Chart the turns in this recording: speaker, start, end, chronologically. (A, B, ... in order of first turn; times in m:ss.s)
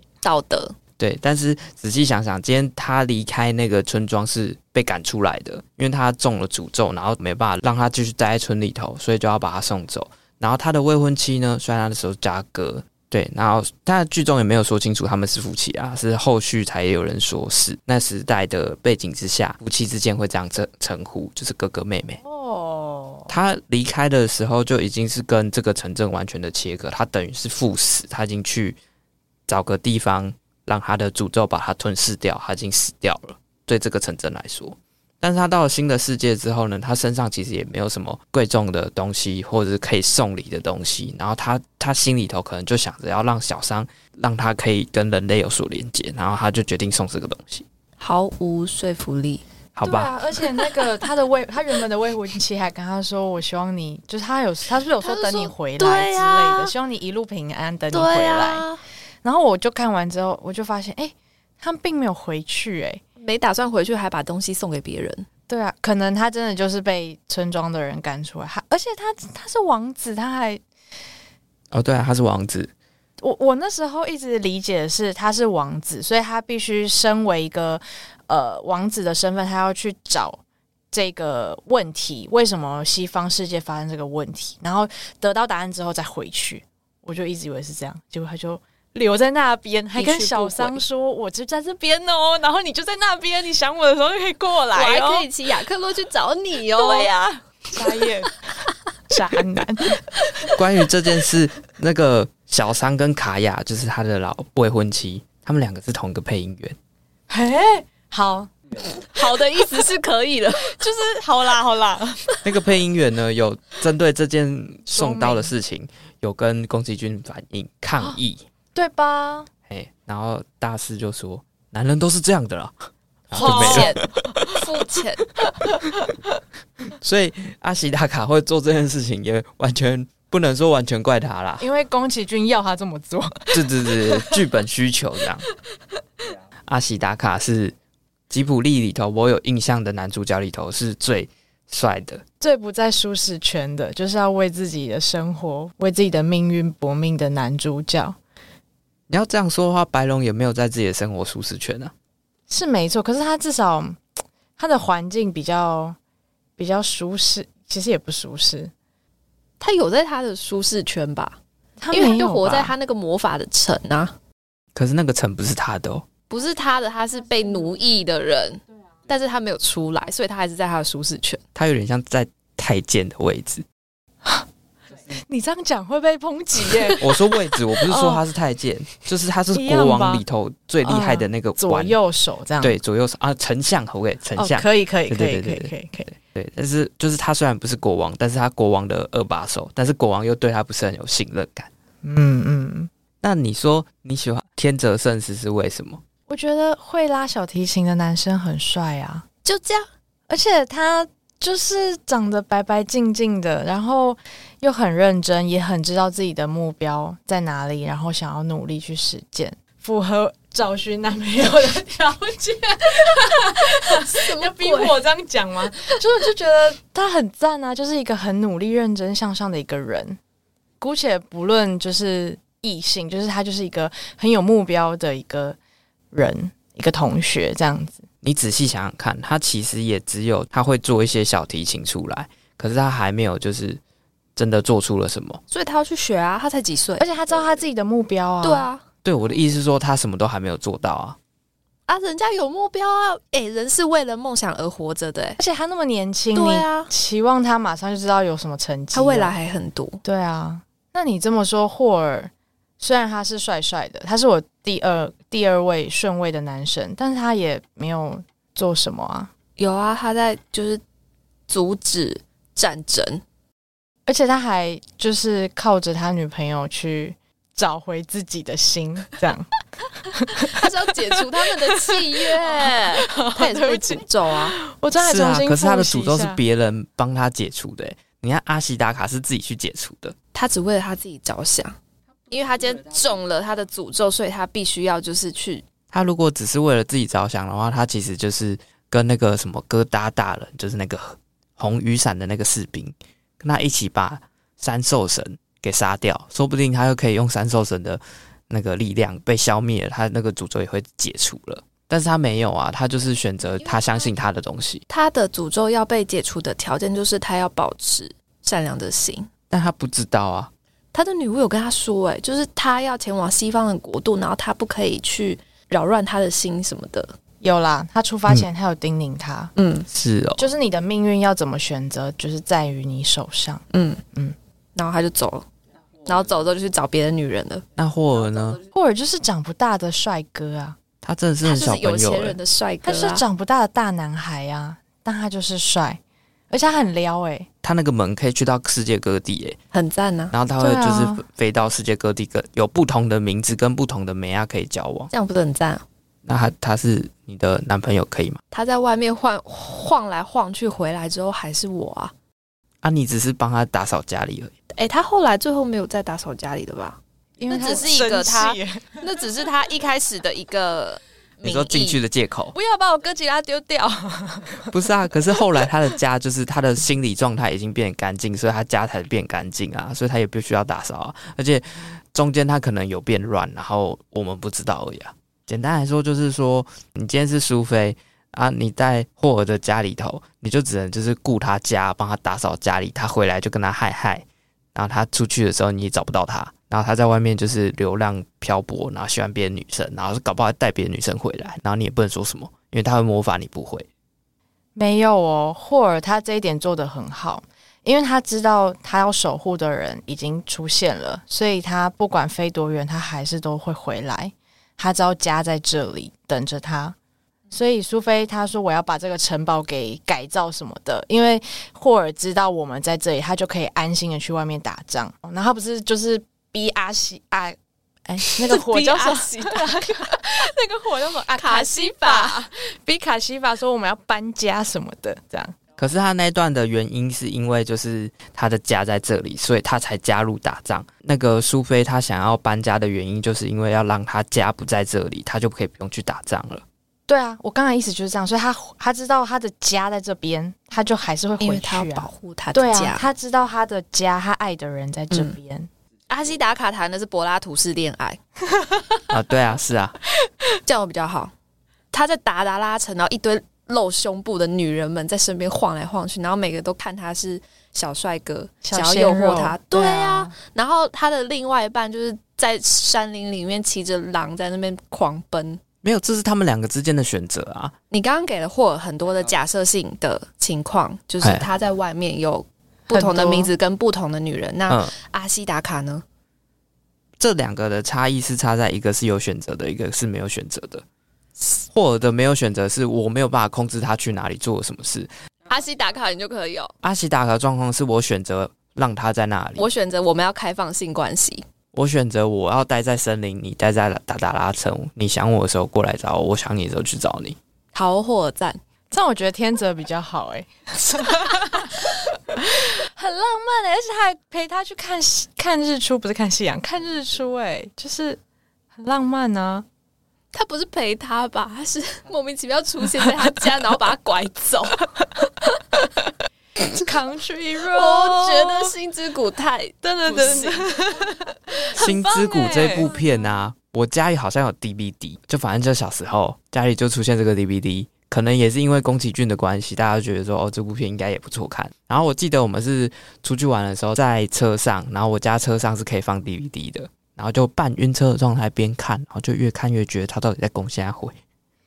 0:00.2-0:00.8 A
0:01.0-0:22.2 B
0:22.2-0:23.3 C
0:23.3-0:28.8 B
0:29.5-0:47.6 B
0:48.0-0:49.4 A
0:49.8-0:50.1 B
0:49.8-0:58.7 C
0:55.0-0:56.7 A
0:57.9-0:58.8 A
0:59.2-1:03.0 C
1:03.2-1:05.3 A
1:05.5-1:10.6 C
1:11.7-1:12.7 B
1:13.2-1:35.3 C
1:30.0-1:30.8 A
1:34.7-1:37.2 A
1:36.8-1:38.4 C
1:39.1-1:40.5 C
1:40.6-1:46.8 B
1:47.3-1:48.5 C
1:49.0-1:50.8 A
1:50.7-1:52.4 C
1:52.4-1:58.4 B
1:54.9-1:55.5 C
1:58.8-1:59.5 C
1:59.7-2:04.0 B
2:03.3-2:04.5 C
2:03.3-2:05.2 A
2:05.5-2:06.1 C
2:07.0-2:11.6 B
2:11.6-2:14.4 C
2:13.5-2:15.5 B
2:16.7-2:17.8 B
2:18.3-2:22.2 B
2:22.4-2:28.2 C
2:29.1-2:31.9 B
2:32.5-2:34.0 C
2:34.6-2:36.0 C
2:36.6-2:38.7 C
2:39.6-2:41.4 A
2:41.8-2:42.7 C
2:41.9-2:44.2 A
2:44.8-2:46.1 B
2:46.3-2:51.4 A
2:51.6-2:53.6 B
2:55.2-2:58.2 C
2:57.0-3:02.0 B
2:59.5-3:00.2 C
3:00.8-3:02.8 C
3:02.6-3:11.7 B
3:04.4-3:06.1 C
3:12.0-3:12.9 C
3:13.2-3:16.0 B
3:16.3-3:19.2 C
3:19.4-3:19.9 A
3:20.3-3:40.2 C
3:33.7-3:35.0 A
3:40.8-3:45.6 C
3:46.1-3:48.0 C
3:48.2-3:53.8 B
3:54.4-3:55.4 B
3:55.5-3:57.1 A
3:57.0-3:58.7 C
3:58.4-3:58.8 A
3:59.0-4:01.2 B
4:01.9-4:05.4 A
4:05.4-4:09.4 C
4:06.3-4:06.9 A
4:08.9-4:10.0 A
4:10.0-4:19.3 C
4:19.6-4:20.8 A
4:21.5-4:23.2 A
4:24.1-4:29.5 C
4:30.1-4:36.4 C
4:30.4-4:34.6 A
4:35.0-4:40.2 B
4:40.3-4:41.8 A
4:42.3-4:45.6 A
4:45.9-5:04.8 B
5:03.6-5:04.1 A
5:04.9-5:09.3 A
5:09.5-5:10.5 B
5:10.9-5:17.2 A
5:17.4-5:19.5 C
5:19.6-5:19.9 A
5:19.9-5:20.5 B
5:20.4-5:24.4 C
5:23.7-5:24.0 A
5:24.8-5:25.5 A
5:26.0-5:27.6 A
5:27.8-5:28.6 B
5:28.7-5:30.8 C
5:31.0-5:32.4 B
5:31.4-5:33.2 A
5:32.8-5:37.5 C
5:37.6-5:39.6 B
5:39.7-5:40.3 A
5:40.3-5:45.1 B
5:40.6-5:41.2 C
5:45.1-5:45.8 A
5:46.2-5:48.4 B
5:48.5-5:52.1 A
5:52.8-5:54.5 B
5:54.8-6:02.0 A
5:57.4-5:59.0 C
6:01.4-6:02.6 B
6:02.5-6:04.7 C
6:04.7-6:33.9 B
6:05.4-6:05.7 C
6:34.8-6:47.0 C
6:47.5-7:05.6 C
6:58.5-7:00.2 A
7:01.4-7:02.4 A
7:05.8-7:16.6 B
7:17.1-7:25.7 C
7:21.4-7:23.0 A
7:26.1-7:28.2 A
7:29.1-7:30.0 B
7:30.6-7:31.3 A
7:31.9-7:45.6 A
7:38.6-7:40.3 C
7:45.8-7:47.7 B
7:47.9-7:56.0 A
7:51.2-7:51.5 B
7:53.0-7:53.4 B
7:53.0-7:53.5 C
7:57.2-8:00.8 B
8:01.7-8:05.1 B
8:05.5-8:06.7 A
8:06.8-8:09.7 B
8:09.6-8:11.4 A
8:11.7-8:17.4 B
8:17.7-8:18.6 A
8:18.9-8:28.2 C
8:28.8-8:29.7 C
8:30.3-8:34.9 A
8:36.7-8:38.7 C
8:37.7-8:40.7 A
8:39.8-8:42.9 C
8:41.8-9:01.2 B
8:42.7-8:43.0 A